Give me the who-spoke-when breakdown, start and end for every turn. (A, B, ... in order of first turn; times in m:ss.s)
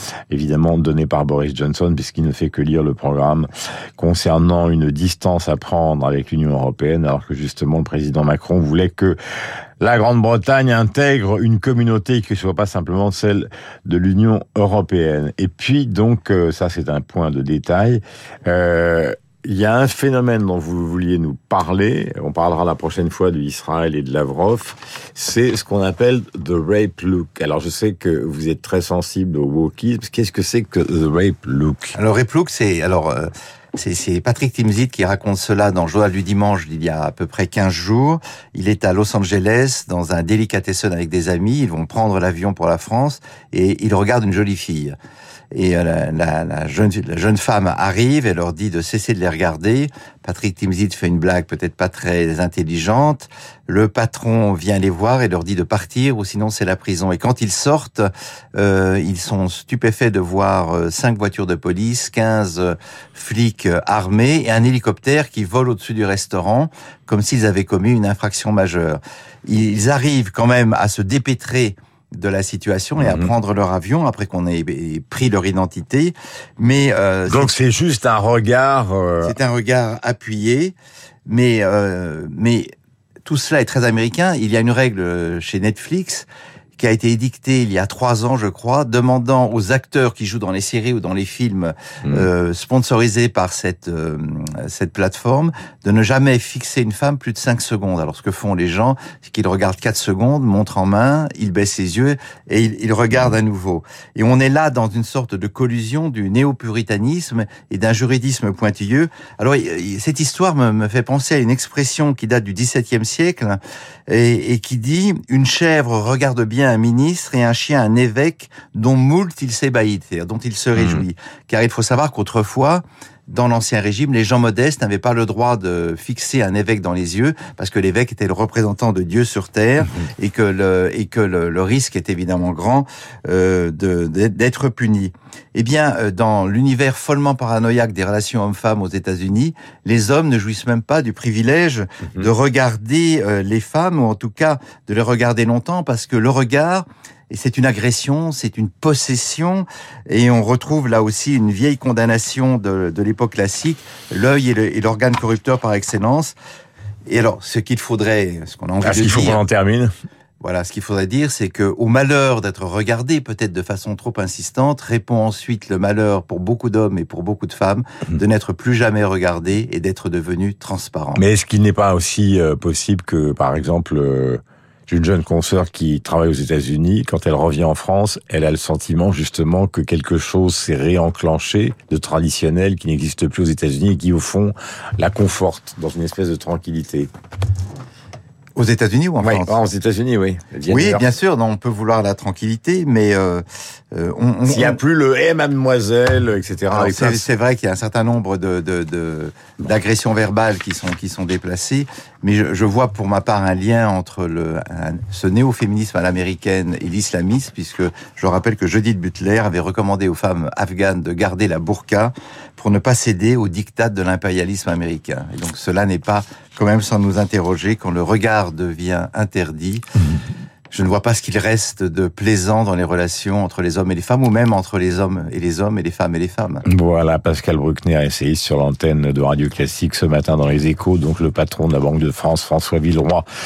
0:00.3-0:09.2 A
0:09.8-0:32.0 A
0:32.0-0:45.0 B
0:45.5-1:17.5 B
1:13.0-1:13.3 A
1:17.3-1:19.4 A
1:19.2-1:20.8 B
1:21.3-1:22.7 B
1:23.3-2:36.4 B
2:00.7-2:01.0 A
2:37.1-2:39.4 B
2:38.8-2:39.9 A
2:40.4-2:51.2 B
2:51.2-3:07.1 A
3:08.6-3:09.6 B
3:09.2-3:11.1 A
3:10.7-3:14.8 B
3:14.5-3:17.3 A
3:16.7-3:39.8 B
3:40.7-3:46.6 B
3:46.7-3:53.2 A